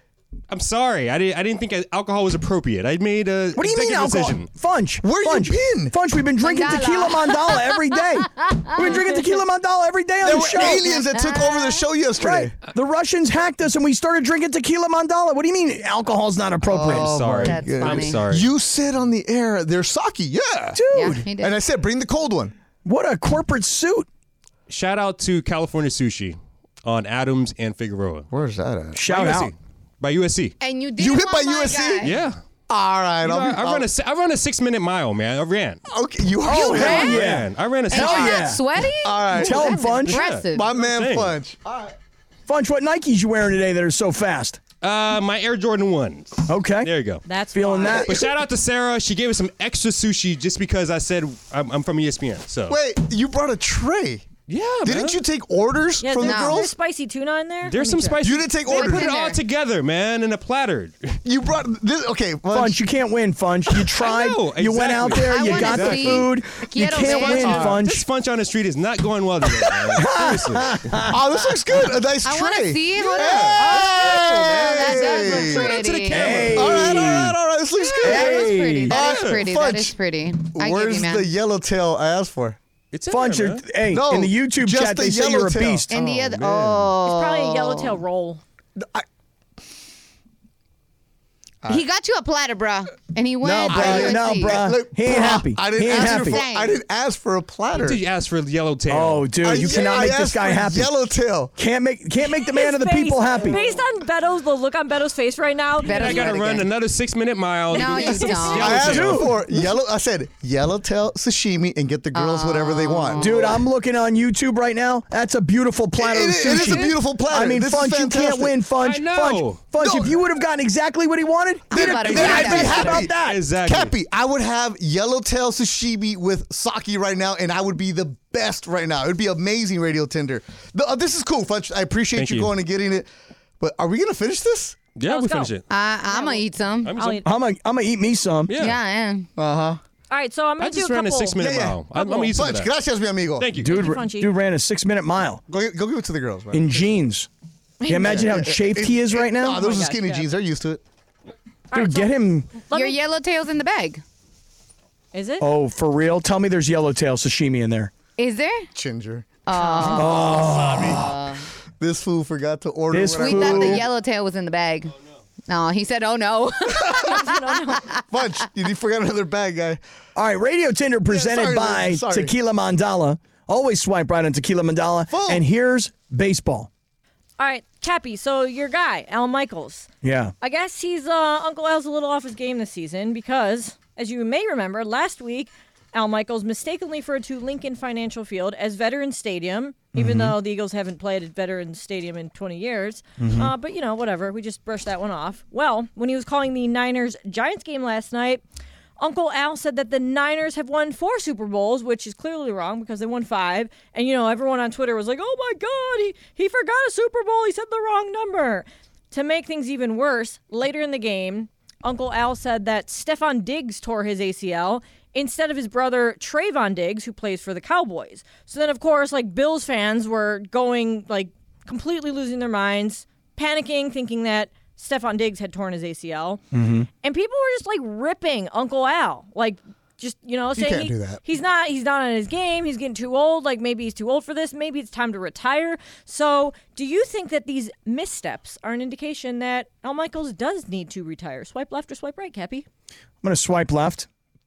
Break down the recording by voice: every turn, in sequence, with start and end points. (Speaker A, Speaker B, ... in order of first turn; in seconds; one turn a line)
Speaker A: 0.5-4.5
Speaker B: 3.5-10.8
Speaker C: 5.0-5.9
Speaker D: 6.4-9.0
Speaker C: 10.2-12.6
Speaker D: 10.5-11.8
Speaker B: 12.2-17.2
Speaker C: 16.7-20.8
Speaker A: 16.9-18.5
Speaker D: 17.4-18.2
Speaker B: 20.7-21.2
Speaker D: 20.9-21.6
Speaker C: 21.3-22.5
Speaker B: 22.9-24.1
Speaker A: 24.7-28.3
Speaker C: 28.3-29.0
Speaker B: 28.9-29.5
Speaker A: 29.0-30.6
Speaker D: 30.6-32.1
Speaker C: 31.0-32.2
Speaker A: 32.0-32.4
Speaker C: 32.7-33.9
Speaker A: 33.2-35.8
Speaker C: 35.9-37.2
Speaker D: 36.5-37.3
Speaker B: 36.5-38.6
Speaker A: 36.6-38.5
Speaker D: 37.9-40.7
Speaker C: 39.0-39.8
Speaker B: 39.4-40.2
Speaker A: 40.0-41.4
Speaker C: 40.3-42.0
Speaker B: 42.5-44.6
Speaker A: 44.8-47.2
Speaker B: 46.5-46.9
Speaker E: 47.3-48.1
Speaker B: 47.5-48.3
Speaker A: 48.0-52.8
Speaker C: 52.7-54.3
Speaker A: 54.5-55.2
Speaker C: 54.8-56.7
Speaker E: 56.0-58.2
Speaker D: 56.2-56.7
Speaker A: 57.7-61.2
Speaker C: 58.2-59.1
Speaker D: 58.7-59.4
Speaker C: 61.2-62.8
Speaker B: 62.5-68.0
Speaker A: 64.0-66.3
Speaker D: 65.2-67.8
Speaker A: 67.0-71.0
Speaker B: 70.0-71.2
Speaker C: 71.0-75.8
Speaker D: 72.2-76.9
Speaker A: 73.0-77.0
Speaker B: 76.1-77.4
Speaker C: 76.5-82.6
Speaker D: 77.8-81.3
Speaker B: 78.0-79.0
Speaker A: 78.9-79.4
Speaker A: 82.9-83.7
Speaker B: 83.1-85.9
Speaker C: 83.9-86.9
Speaker D: 85.9-88.0
Speaker E: 87.0-88.4
Speaker C: 88.8-89.0
Speaker D: 91.7-94.6
Speaker B: 93.4-96.4
Speaker C: 93.7-98.0
Speaker D: 95.9-96.8
Speaker A: 97.7-99.4
Speaker B: 98.9-100.9
Speaker C: 99.4-101.5
Speaker B: 101.6-103.6
Speaker E: 102.2-106.4
Speaker D: 105.8-106.7
Speaker A: 105.8-109.4
Speaker D: 107.7-109.1
Speaker E: 107.7-108.7
Speaker C: 108.5-113.6
Speaker B: 108.8-109.4
Speaker D: 112.1-113.6
Speaker B: 113.2-123.4
Speaker C: 116.0-118.6
Speaker A: 118.8-119.6
Speaker C: 119.8-120.2
Speaker D: 121.7-123.1
Speaker C: 121.7-133.1
Speaker A: 122.1-124.0
Speaker A: 132.1-132.5
Speaker C: 133.6-134.9
Speaker A: 135.0-135.7
Speaker E: 135.1-137.3
Speaker D: 135.7-136.9
Speaker A: 136.8-137.2
Speaker B: 137.2-138.6
Speaker A: 138.5-138.8
Speaker D: 138.6-139.3
Speaker C: 139.4-139.8
Speaker E: 140.1-141.4
Speaker A: 140.6-142.7
Speaker C: 141.4-143.5
Speaker E: 141.9-142.4
Speaker A: 143.4-143.8
Speaker E: 143.6-144.3
Speaker B: 143.6-145.4
Speaker C: 145.5-146.9
Speaker B: 146.5-147.3
Speaker E: 147.8-148.3
Speaker B: 147.9-149.6
Speaker C: 147.9-150.8
Speaker E: 149.5-150.3
Speaker E: 151.7-153.0
Speaker B: 151.7-152.5
Speaker D: 152.7-154.0
Speaker E: 155.1-155.4
Speaker B: 155.4-157.9
Speaker D: 158.2-158.7
Speaker C: 158.7-163.9
Speaker D: 159.5-161.5
Speaker B: 159.9-161.0
Speaker B: 162.9-163.8
Speaker D: 163.2-164.9
Speaker D: 165.5-168.0
Speaker E: 166.9-167.9
Speaker C: 168.1-169.8
Speaker B: 170.2-176.7
Speaker C: 171.1-172.3
Speaker C: 175.1-175.4
Speaker E: 177.4-179.9
Speaker B: 180.0-180.3
Speaker E: 180.4-198.4
Speaker B: 189.9-190.3
Speaker B: 193.2-193.5
Speaker E: 199.0-226.4
Speaker B: 226.5-226.9
Speaker E: 227.0-242.7
Speaker C: 230.6-231.2
Speaker B: 243.2-244.1